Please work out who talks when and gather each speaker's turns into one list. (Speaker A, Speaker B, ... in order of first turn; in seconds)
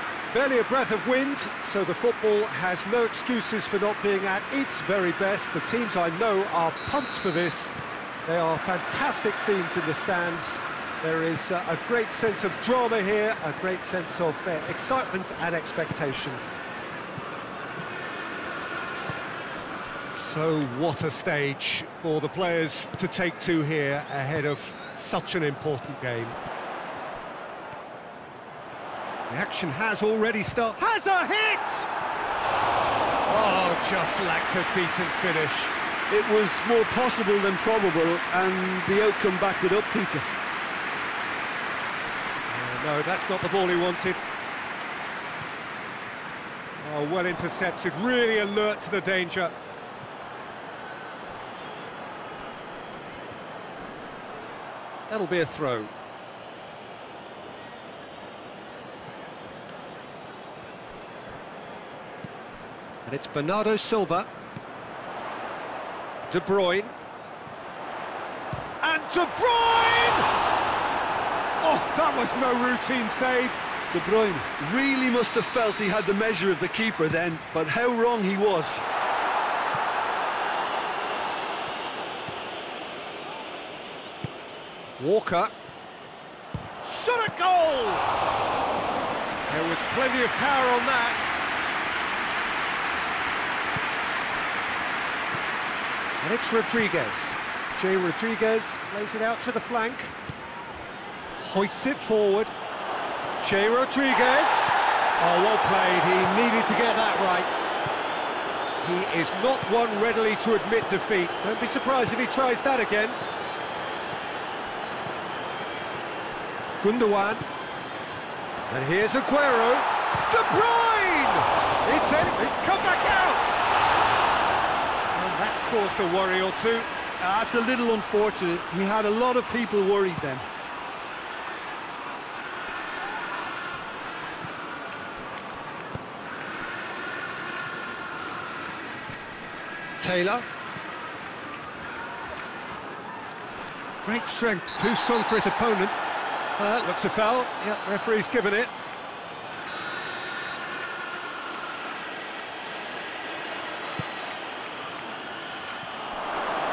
Speaker A: 0.3-7.7, 8.2-16.4, 20.1-26.4, 29.3-31.9, 33.3-35.7, 42.5-44.2, 46.8-49.5, 55.1-55.9, 63.0-64.3, 66.3-66.9, 68.8-70.3, 71.6-73.6, 85.0-85.5, 86.8-88.0, 89.5-91.2, 96.2-100.1, 101.4-102.5, 103.4-107.5, 108.8-113.2, 116.8-117.4, 118.7-123.6, 125.1-126.9, 140.0-140.4, 144.0-145.9, 146.6-148.7
Speaker B: 36.1-40.2, 73.9-78.8, 127.2-130.4